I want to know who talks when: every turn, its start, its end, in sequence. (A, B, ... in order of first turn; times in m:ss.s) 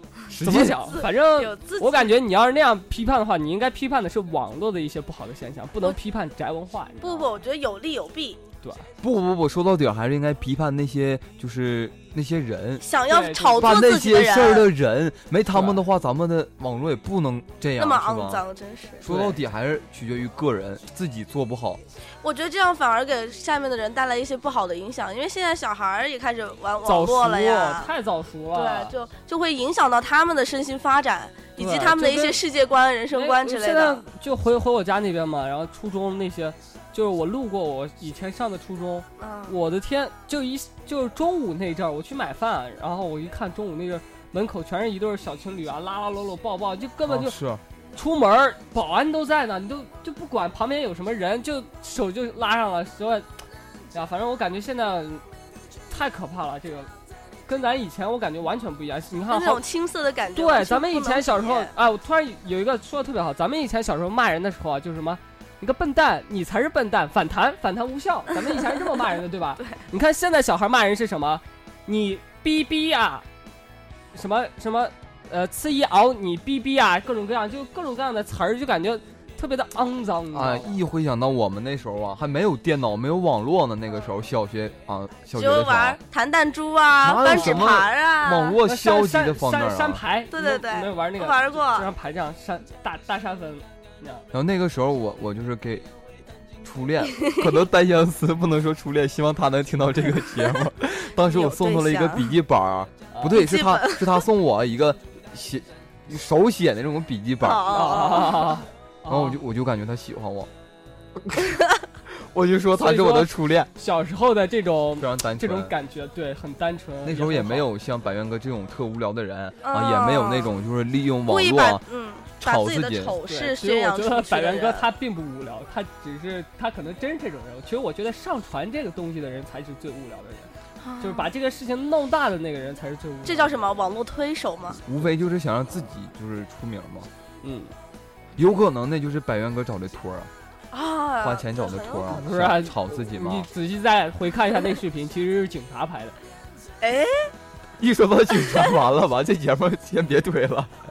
0:00.3-0:00.8 A
0:00.4-0:07.4 B
0:00.9-0:02.2 C
0:07.0-0:08.4 C
0:08.6-0:08.9 B
0:09.0-0:12.9 A
0:12.8-0:14.7 C
0:13.1-0:13.8 B
0:13.6-0:18.4 A
0:15.5-0:15.8 B
0:17.8-0:19.1 C
0:19.0-0:21.8 A
0:19.1-0:19.4 B
0:22.2-0:27.9 C
0:26.8-0:28.9 B
0:28.5-0:34.0 C
0:31.6-0:32.4 B
0:33.1-0:47.4 B
0:39.2-0:39.6 C
0:47.1-0:47.6 A
0:47.9-0:53.3 B
0:53.9-0:55.2 B
0:55.9-0:56.9 B
0:57.5-0:59.6 B
0:59.3-1:01.7 C
1:00.4-1:13.2 B
1:14.1-1:20.8 B
1:20.3-1:26.0 A
1:25.4-1:28.6 C
1:27.0-1:30.0 A
1:27.2-1:27.6 B
1:28.6-1:34.2 B
1:30.3-1:31.9 C
1:34.3-1:35.9 A
1:36.6-1:48.0 A
1:37.2-1:37.5 C
1:41.2-1:42.3 C
1:43.1-1:43.4 B
1:43.3-1:44.2 C
1:47.4-1:48.6 C
1:47.7-1:49.4 B
1:49.1-1:50.5 A
1:51.2-1:51.6 A
1:52.1-1:53.7 A
1:52.8-1:57.7 B
1:55.0-1:55.7 A
1:57.0-2:01.8 A
1:59.6-2:00.5 C
2:01.3-2:04.9 C
2:02.4-2:03.2 A
2:03.3-2:13.8 B
2:10.8-2:11.3 C
2:13.2-2:14.8 C
2:14.8-2:17.1 A
2:17.4-2:17.7 B
2:18.4-2:20.3 A
2:20.7-2:22.3 C
2:21.2-2:23.5 A
2:22.1-2:26.2 B
2:26.8-2:27.3 C
2:27.8-2:30.8 A
2:28.4-2:28.7 C